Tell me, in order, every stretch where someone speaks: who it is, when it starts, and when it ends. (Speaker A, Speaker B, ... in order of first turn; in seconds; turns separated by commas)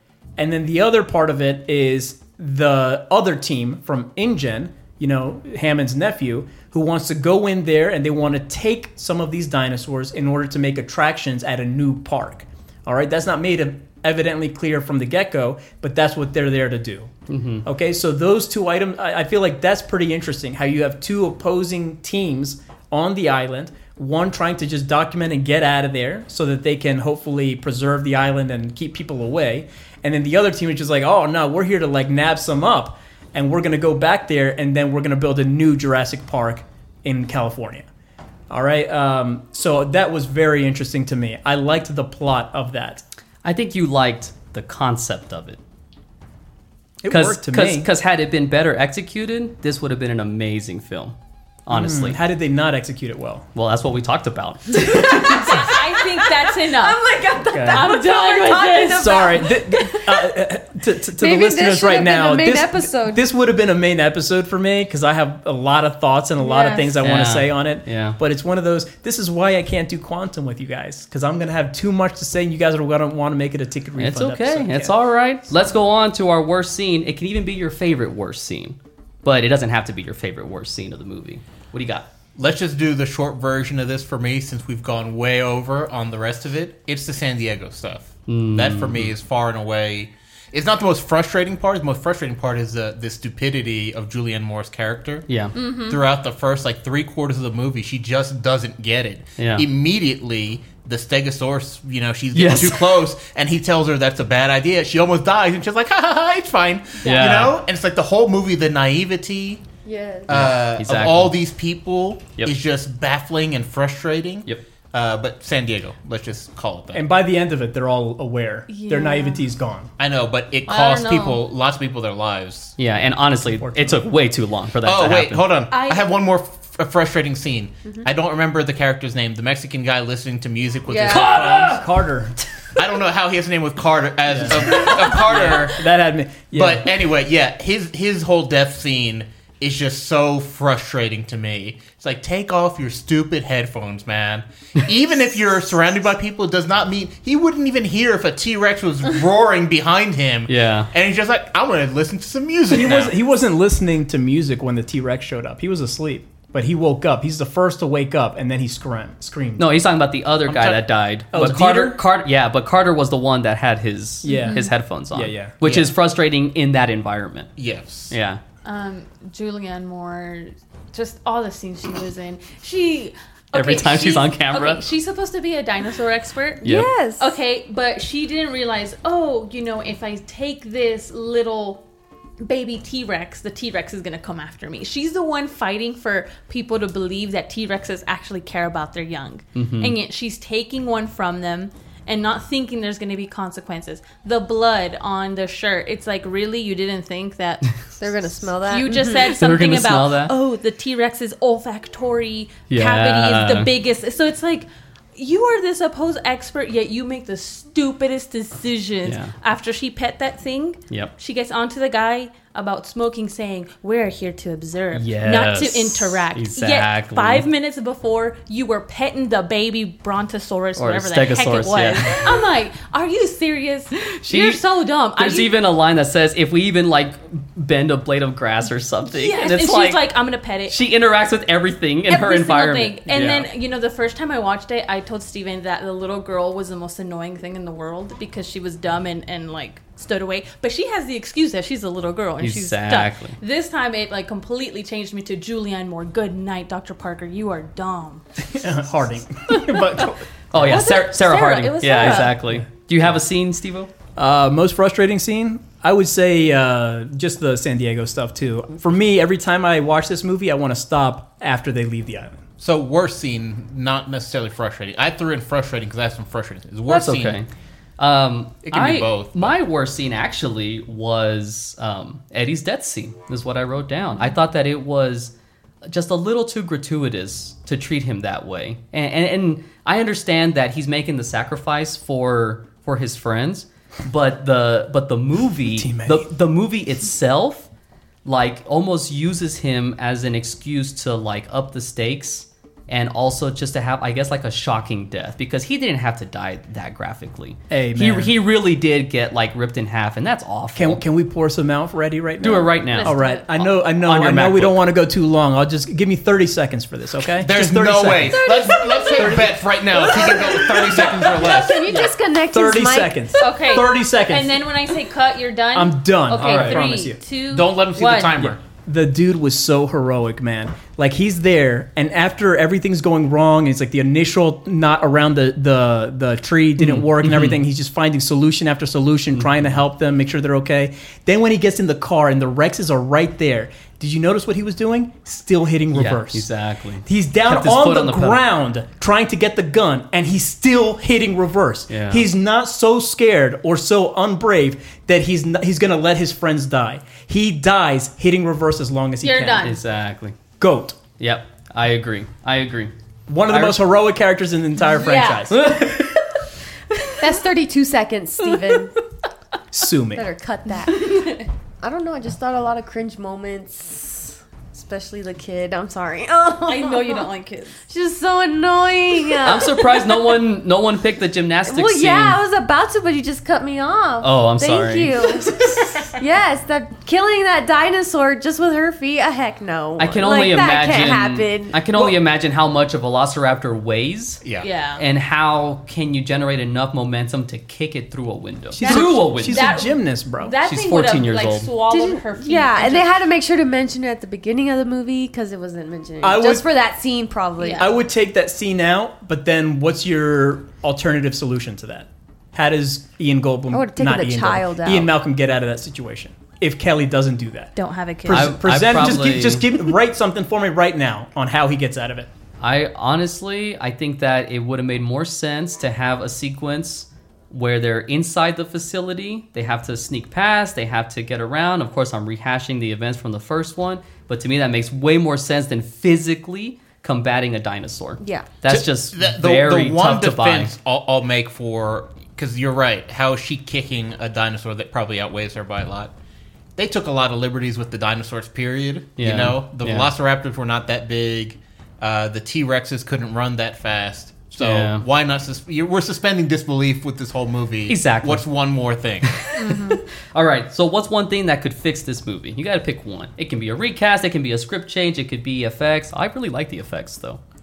Speaker A: 0.4-17.1, Speaker B: 17.3-17.6, Speaker A: 17.6-37.9, Speaker A: 38.5-43.0, Speaker B: 43.4-45.6, Speaker A: 47.0-47.9, Speaker B: 47.1-51.1, Speaker B: 51.6-52.2, Speaker A: 51.7-53.5, Speaker B: 53.5-55.5, Speaker C: 54.8-60.4, Speaker D: 55.0-57.0, Speaker A: 57.5-57.9, Speaker D: 57.5-59.2, Speaker A: 58.9-75.0, Speaker C: 61.2-63.2, Speaker D: 66.4-66.9, Speaker C: 66.5-66.8, Speaker B: 67.0-68.2, Speaker B: 74.0-82.1, Speaker E: 82.3-95.3, Speaker B: 88.3-89.1, Speaker B: 95.3-95.5, Speaker D: 95.5-96.0, Speaker E: 95.8-109.6, Speaker B: 99.4-99.7, Speaker B: 102.3-102.9, Speaker B: 107.0-107.5, Speaker C: 109.8-110.4, Speaker E: 110.3-117.0, Speaker B: 110.3-111.3, Speaker A: 116.9-119.9, Speaker D: 118.7-119.5, Speaker E: 120.0-122.7, Speaker D: 120.7-121.4, Speaker B: 122.8-125.5, Speaker A: 123.4-124.1, Speaker E: 124.8-131.7, Speaker D: 125.7-126.1, Speaker C: 130.9-131.3, Speaker B: 131.1-131.8, Speaker A: 131.1-132.4, Speaker E: 132.8-135.8, Speaker A: 134.3-136.9, Speaker E: 136.5-153.1, Speaker B: 150.5-150.9, Speaker A: 152.7-159.7, Speaker B: 159.6-167.5, Speaker E: 160.5-160.8, Speaker A: 161.3-162.0, Speaker A: 164.2-165.9, Speaker C: 164.2-164.6, Speaker E: 167.6-168.1, Speaker B: 168.1-168.4, Speaker D: 168.6-181.8, Speaker B: 173.5-174.8, Speaker B: 176.6-176.9, Speaker C: 176.6-177.3, Speaker D: 182.4-197.7, Speaker B: 189.5-189.9, Speaker C: 198.0-199.3, Speaker D: 198.6-225.5, Speaker B: 199.3-200.3, Speaker B: 202.7-203.7, Speaker B: 209.0-209.3, Speaker B: 214.9-217.4, Speaker B: 220.8-222.2, Speaker B: 224.2-224.6, Speaker B: 225.2-230.0, Speaker D: 229.1-230.8, Speaker B: 230.7-233.5, Speaker D: 232.1-248.5, Speaker B: 242.4-243.3, Speaker A: 248.5-250.9, Speaker D: 249.6-249.9, Speaker B: 250.5-253.9, Speaker D: 250.5-252.4, Speaker A: 254.2-262.4, Speaker E: 262.6-267.4, Speaker B: 266.9-267.5, Speaker B: 268.0-275.3, Speaker E: 268.6-269.5, Speaker B: 275.8-287.7, Speaker A: 285.7-286.3, Speaker B: 288.2-301.0, Speaker A: 297.7-298.3, Speaker A: 300.7-308.5, Speaker B: 302.4-304.8, Speaker D: 302.9-303.4, Speaker E: 307.4-311.9, Speaker C: 308.4-313.3, Speaker A: 309.1-309.5, Speaker A: 310.9-314.6, Speaker D: 313.4-318.4, Speaker A: 315.7-317.2, Speaker B: 316.4-316.8, Speaker E: 317.5-318.6, Speaker A: 318.4-336.5, Speaker B: 326.8-327.6, Speaker B: 329.3-329.8, Speaker B: 335.9-338.4, Speaker A: 337.1-349.7, Speaker B: 341.9-342.3, Speaker D: 349.2-349.8, Speaker B: 349.6-350.4, Speaker A: 350.6-351.0, Speaker B: 351.2-352.9, Speaker A: 353.3-355.7, Speaker B: 353.5-353.8, Speaker D: 354.9-355.9, Speaker B: 355.5-356.3, Speaker C: 357.2-358.9, Speaker A: 359.7-360.3, Speaker C: 360.1-367.3, Speaker D: 360.8-361.5, Speaker D: 366.6-367.9, Speaker C: 367.9-370.4, Speaker B: 369.4-372.4, Speaker C: 371.6-381.8, Speaker B: 374.2-375.9, Speaker B: 380.0-384.4, Speaker E: 384.4-384.7, Speaker D: 384.6-385.0, Speaker B: 385.0-389.6, Speaker A: 388.7-390.6, Speaker D: 388.8-393.2, Speaker B: 390.6-391.7, Speaker C: 391.9-397.9, Speaker A: 396.2-396.6, Speaker D: 397.6-397.9, Speaker A: 397.8-407.7, Speaker C: 403.7-405.1, Speaker D: 407.8-408.6, Speaker A: 408.2-412.3, Speaker B: 408.3-409.9, Speaker B: 412.6-430.7, Speaker C: 428.2-428.5, Speaker E: 428.7-436.1, Speaker E: 436.8-449.4, Speaker B: 439.2-440.1, Speaker B: 444.6-445.0, Speaker B: 447.9-448.4, Speaker B: 449.2-457.4, Speaker D: 449.6-450.0